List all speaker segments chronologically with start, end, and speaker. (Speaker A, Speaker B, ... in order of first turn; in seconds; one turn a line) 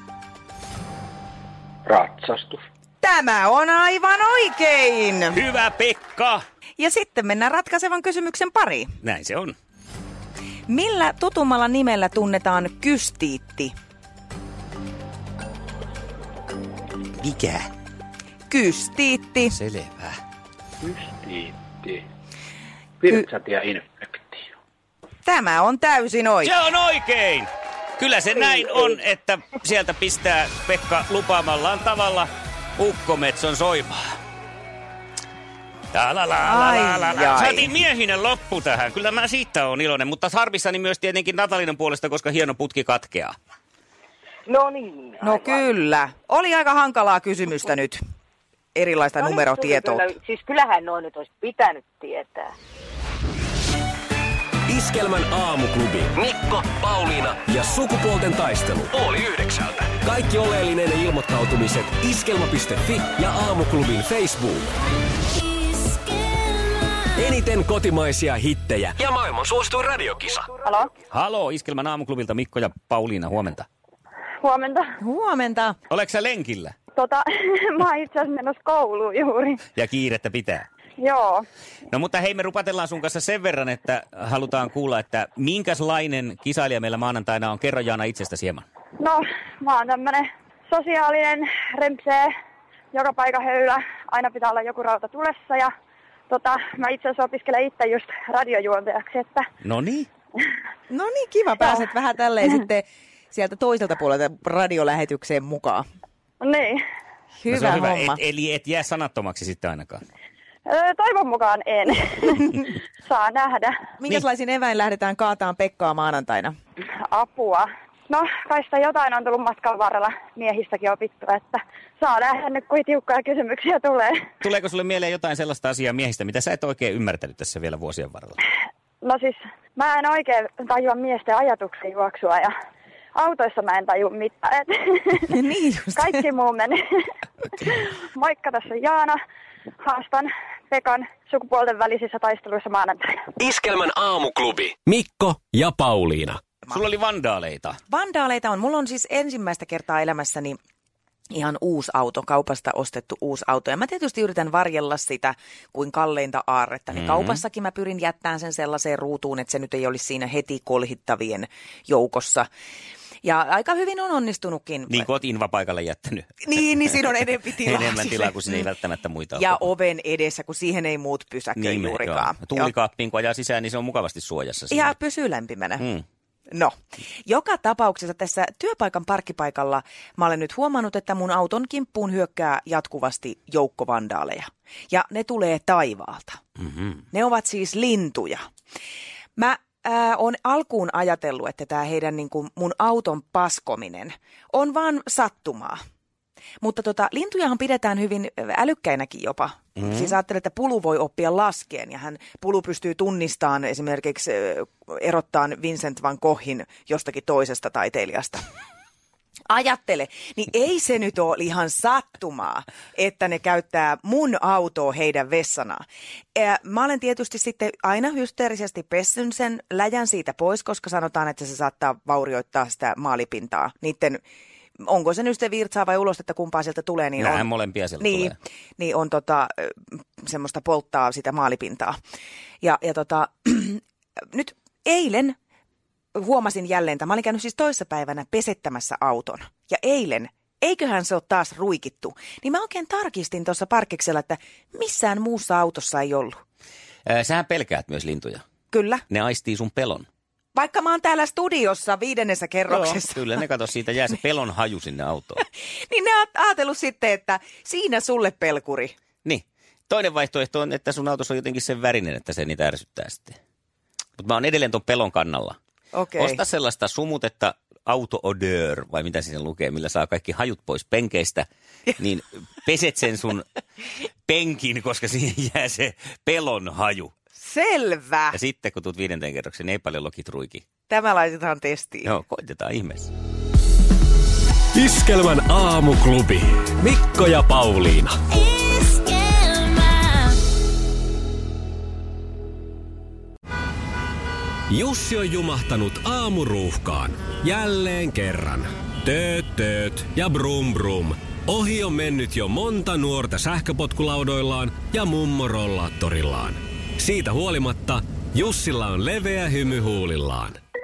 Speaker A: 1.9-2.6
Speaker B: 3.0-5.4
Speaker C: 5.3-6.4
Speaker B: 6.8-8.9
Speaker C: 9.0-9.6
Speaker B: 10.7-13.7
Speaker C: 17.2-17.7
Speaker B: 18.5-19.6
Speaker C: 19.5-20.2
Speaker A: 20.8-22.1
Speaker A: 23.0-24.5
Speaker B: 25.2-26.5
Speaker C: 26.4-34.1
Speaker C: 35.9-43.4
Speaker B: 36.4-37.7
Speaker D: 44.5-45.7
Speaker B: 45.2-48.0
Speaker B: 48.8-50.0
Speaker D: 49.2-52.5
Speaker E: 54.7-64.7
Speaker E: 67.0-70.5
Speaker F: 70.6-70.9
Speaker C: 71.1-73.7
Speaker F: 74.4-74.9
Speaker B: 75.0-75.8
Speaker C: 75.9-76.7
Speaker F: 77.0-79.7
Speaker C: 79.8-80.7
Speaker F: 81.0-81.5
Speaker C: 81.9-88.7
Speaker F: 89.0-92.3
Speaker F: 92.9-95.7
Speaker F: 96.3-99.5
Speaker C: 99.6-100.1
Speaker B: 100.9-105.8
Speaker F: 106.4-106.8
Speaker B: 107.4-108.2
Speaker C: 107.5-110.0
Speaker F: 110.7-113.8
Speaker B: 114.0-116.5
Speaker F: 117.0-124.3
Speaker C: 124.4-128.4
Speaker F: 129.0-132.5
Speaker F: 133.2-135.3
Speaker B: 135.3-136.2
Speaker F: 135.9-137.1
Speaker F: 137.6-139.2
Speaker F: 139.8-143.1
Speaker E: 143.4-146.4
Speaker C: 146.7-147.8
Speaker B: 147.9-150.6
Speaker B: 151.3-162.5
Speaker C: 156.9-157.4
Speaker B: 163.2-165.1
Speaker C: 164.9-166.5
Speaker B: 166.4-168.7
Speaker C: 167.6-169.6
Speaker B: 169.3-172.7
Speaker C: 171.6-174.9
Speaker B: 174.7-175.8
Speaker B: 177.3-186.4
Speaker C: 186.6-187.0
Speaker B: 187.1-188.4
Speaker B: 189.4-195.8
Speaker B: 196.6-208.4
Speaker C: 199.8-200.1
Speaker B: 209.5-224.2
Speaker B: 224.8-227.5
Speaker C: 227.2-228.3
Speaker B: 228.0-232.0
Speaker B: 232.6-233.8
Speaker B: 234.3-235.4
Speaker B: 236.2-246.4
Speaker C: 247.1-248.4
Speaker B: 248.7-249.0
Speaker C: 249.1-250.1
Speaker B: 250.5-253.4
Speaker C: 252.7-255.4
Speaker B: 255.9-258.9
Speaker C: 259.2-263.4
Speaker C: 264.2-265.6
Speaker B: 265.9-266.4
Speaker C: 266.2-273.5
Speaker C: 274.3-277.1
Speaker B: 277.4-278.4
Speaker C: 278.3-280.6
Speaker B: 280.9-282.1
Speaker C: 282.1-283.1
Speaker E: 284.8-289.6
Speaker E: 294.7-310.6